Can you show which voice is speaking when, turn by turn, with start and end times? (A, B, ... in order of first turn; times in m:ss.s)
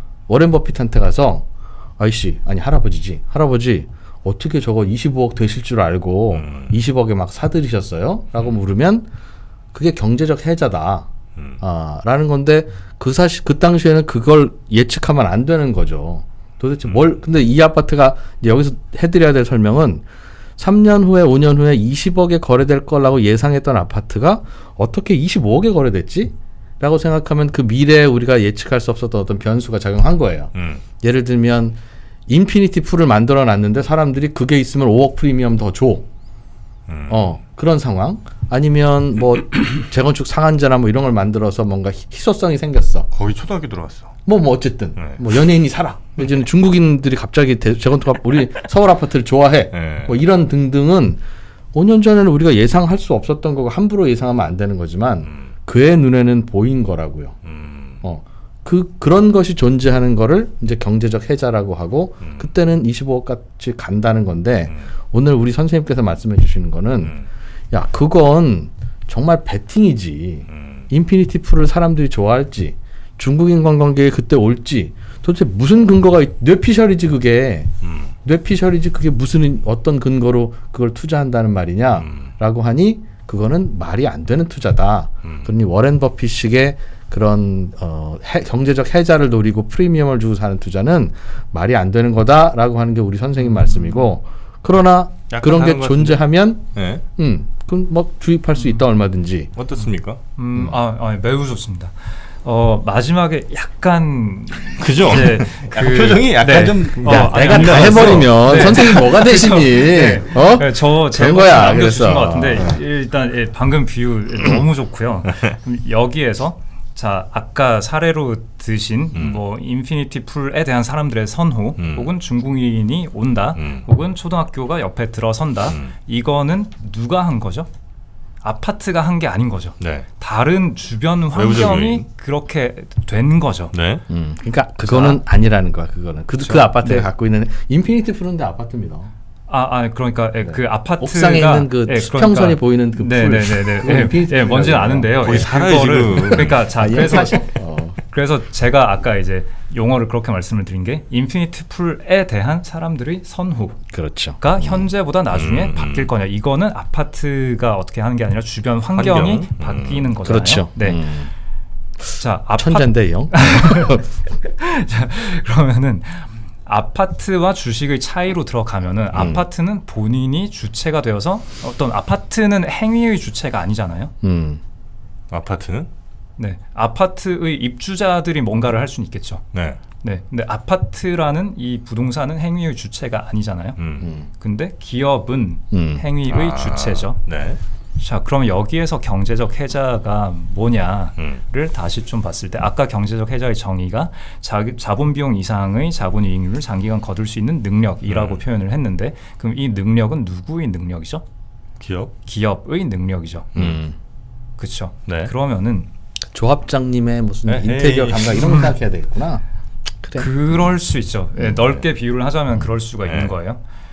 0:00.3-0:01.4 A
0:02.0-0:09.1 A
0:06.3-0:06.7 B
0:09.7-0:20.0 A
0:20.6-0:36.1 A
0:30.5-0:30.8 B
0:36.9-0:37.2 B
0:37.1-0:43.1 A
0:43.1-0:44.1 B
0:44.2-0:51.2 A
0:49.7-0:50.1 B
0:51.7-0:57.4 A
0:57.4-0:58.0 B
0:58.0-1:07.2 A
1:07.7-1:17.7 A
1:10.5-1:10.8 B
1:17.8-1:18.1 B
1:18.2-1:39.5 A
1:22.0-1:22.3 B
1:25.2-1:25.5 B
1:35.3-1:37.0 B
1:39.6-1:40.2 B
1:40.4-2:07.7 C
1:44.8-1:49.0 B
1:46.9-1:52.8 A
1:59.1-1:59.4 B
2:01.8-2:02.1 B
2:03.6-2:03.8 B
2:08.4-2:13.7 C
2:09.8-2:10.0 B
2:11.3-2:12.0 B
2:13.7-2:14.0 B
2:14.1-2:19.1 A
2:14.8-2:15.2 C
2:16.5-2:17.1 C
2:19.5-2:27.5 C
2:20.4-2:25.4 A
2:25.2-2:26.7 B
2:26.4-2:28.0 A
2:28.0-2:33.8 C
2:33.9-2:34.8 A
2:34.4-2:41.1 C
2:35.3-2:36.1 B
2:39.0-2:40.1 B
2:40.2-2:41.3 A
2:42.2-2:54.1 C
2:42.6-2:44.0 A
2:49.1-2:49.4 A
2:54.2-2:54.6 A
2:55.3-2:55.9 B
2:56.4-2:59.4 C
2:59.5-2:59.8 B
3:00.0-3:03.8 C
3:03.8-3:04.1 B
3:04.0-3:04.3 A
3:04.4-3:07.2 C
3:05.7-3:06.0 A
3:06.3-3:07.6 B
3:08.0-3:21.2 C
3:18.1-3:18.4 B
3:21.8-3:22.1 B
3:22.2-3:23.5 C
3:23.6-3:24.0 A
3:24.6-3:25.9 C
3:25.1-3:25.3 B
3:26.3-3:29.4 A
3:27.4-3:28.6 B
3:30.0-3:30.6 A
3:30.2-3:33.6 C
3:33.0-3:33.3 B